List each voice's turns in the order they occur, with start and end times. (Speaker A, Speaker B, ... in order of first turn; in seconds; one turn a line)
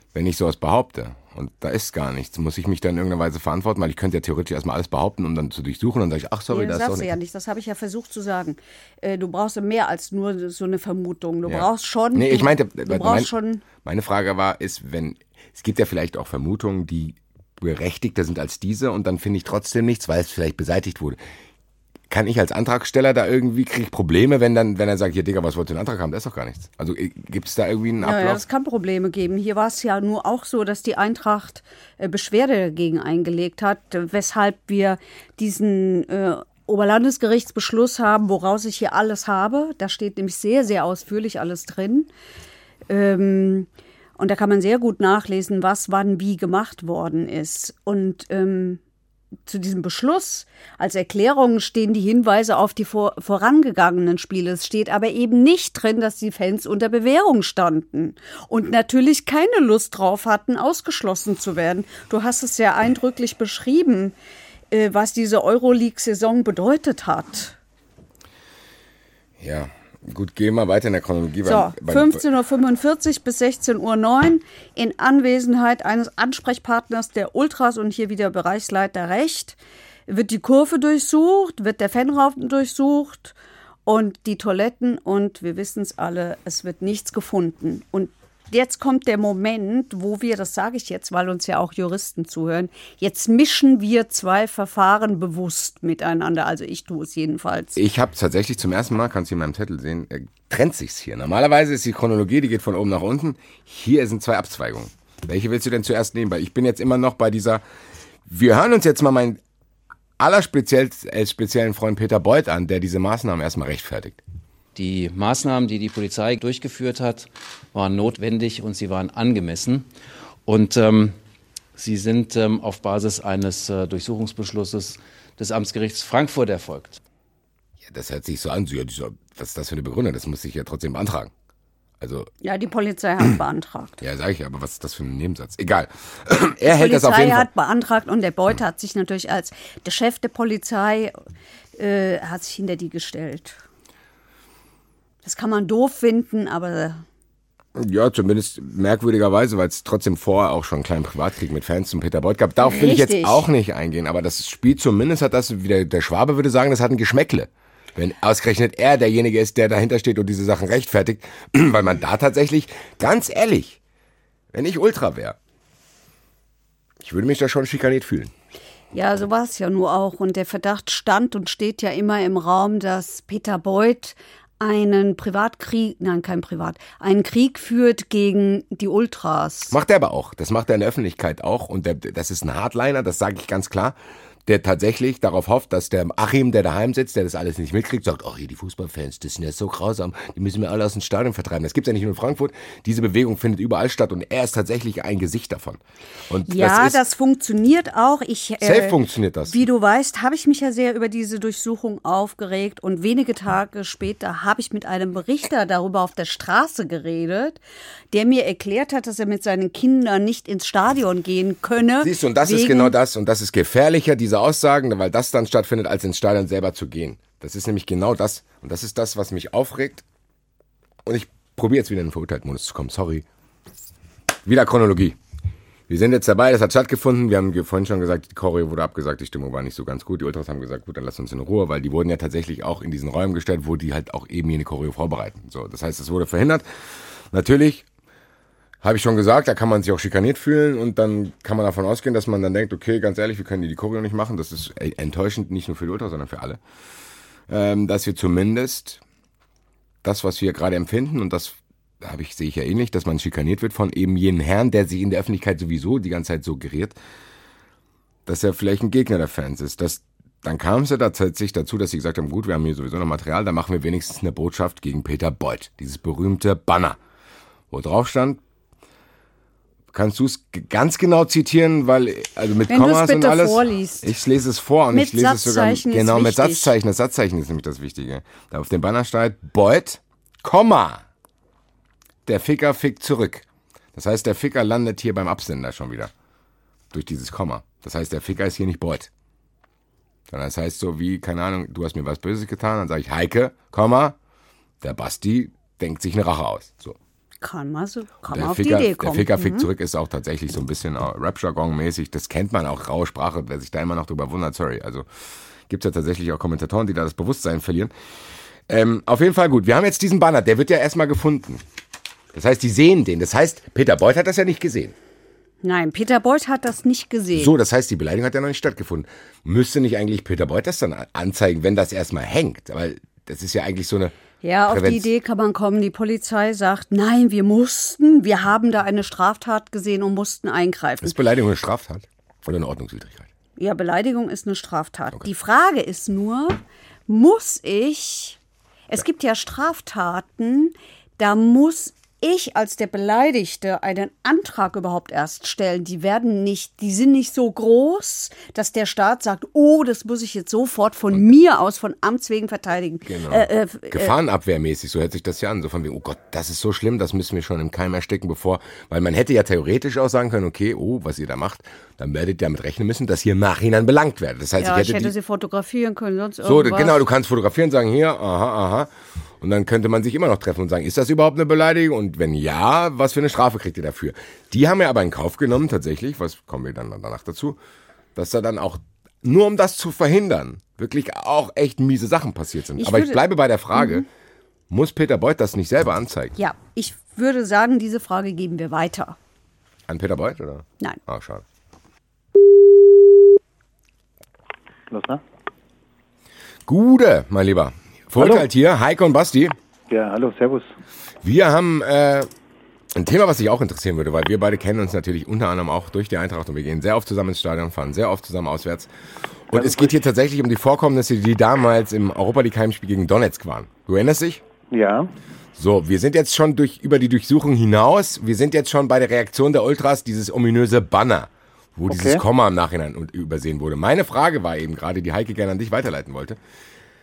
Speaker A: 0.1-7.1
Speaker B: 6.5-13.6
Speaker A: 11.5-13.3
Speaker A: 13.8-21.2
Speaker A: 22.1-28.4
Speaker B: 28.0-42.1
Speaker B: 42.9-48.8
Speaker B: 49.5-64.2
Speaker B: 64.7-67.6
Speaker A: 69.4-72.2
Speaker B: 71.4-83.3
Speaker B: 83.9-97.8
Speaker A: 97.8-107.6
Speaker A: 108.3-109.4
Speaker A: 110.2-114.2
Speaker C: 114.8-119.9
Speaker C: 120.5-121.2
Speaker C: 121.8-127.0
Speaker A: 127.8-131.3
Speaker A: 132.0-132.3
Speaker B: 132.4-134.0
Speaker A: 134.0-137.5
Speaker B: 136.6-141.1
Speaker B: 141.8-143.6
Speaker B: 145.2-147.0
Speaker A: 147.8-163.8
Speaker B: 152.6-153.5
Speaker A: 164.5-165.4
Speaker A: 167.0-168.3
Speaker B: 168.9-179.8
Speaker A: 179.7-197.0
Speaker B: 196.5-207.6
Speaker A: 198.6-199.7
Speaker B: 208.1-212.9
Speaker A: 212.0-220.0
Speaker A: 221.0-223.3
Speaker A: 224.5-225.2
Speaker A: 225.9-236.7
Speaker A: 237.3-237.9
Speaker A: 238.8-246.6
Speaker A: 247.5-249.0
Speaker A: 250.0-257.0
Speaker A: 258.3-267.0
Speaker A: 267.7-268.4
Speaker A: 269.9-281.0
Speaker B: 272.7-274.1
Speaker B: 274.9-276.7
Speaker A: 282.3-286.1
Speaker A: 286.9-289.1
Speaker A: 290.3-294.2
Speaker A: 294.8-297.0
Speaker B: 297.4-299.7
Speaker A: 298.3-305.1
Speaker A: 305.7-307.9
Speaker A: 308.7-311.6
Speaker A: 312.3-314.9
Speaker B: 315.6-317.5
Speaker A: 317.3-324.1
Speaker B: 324.4-331.2
Speaker A: 324.7-325.1
Speaker A: 331.0-333.3
Speaker B: 333.6-338.4
Speaker B: 338.9-354.1
Speaker A: 353.1-365.1
Speaker B: 364.6-367.0
Speaker A: 366.4-377.6
Speaker A: 378.2-384.1
Speaker B: 382.8-383.2
Speaker B: 383.7-384.0
Speaker A: 384.7-386.4
Speaker B: 386.4-389.2
Speaker A: 389.9-391.4
Speaker D: 394.9-395.2
Speaker A: 396.7-399.6
Speaker D: 398.2-398.5
Speaker D: 399.9-400.7
Speaker A: 401.2-402.3
Speaker A: 402.9-408.9
Speaker A: 409.5-414.4
Speaker D: 409.5-409.9
Speaker D: 414.7-415.1
Speaker A: 415.6-426.4
Speaker D: 421.9-422.2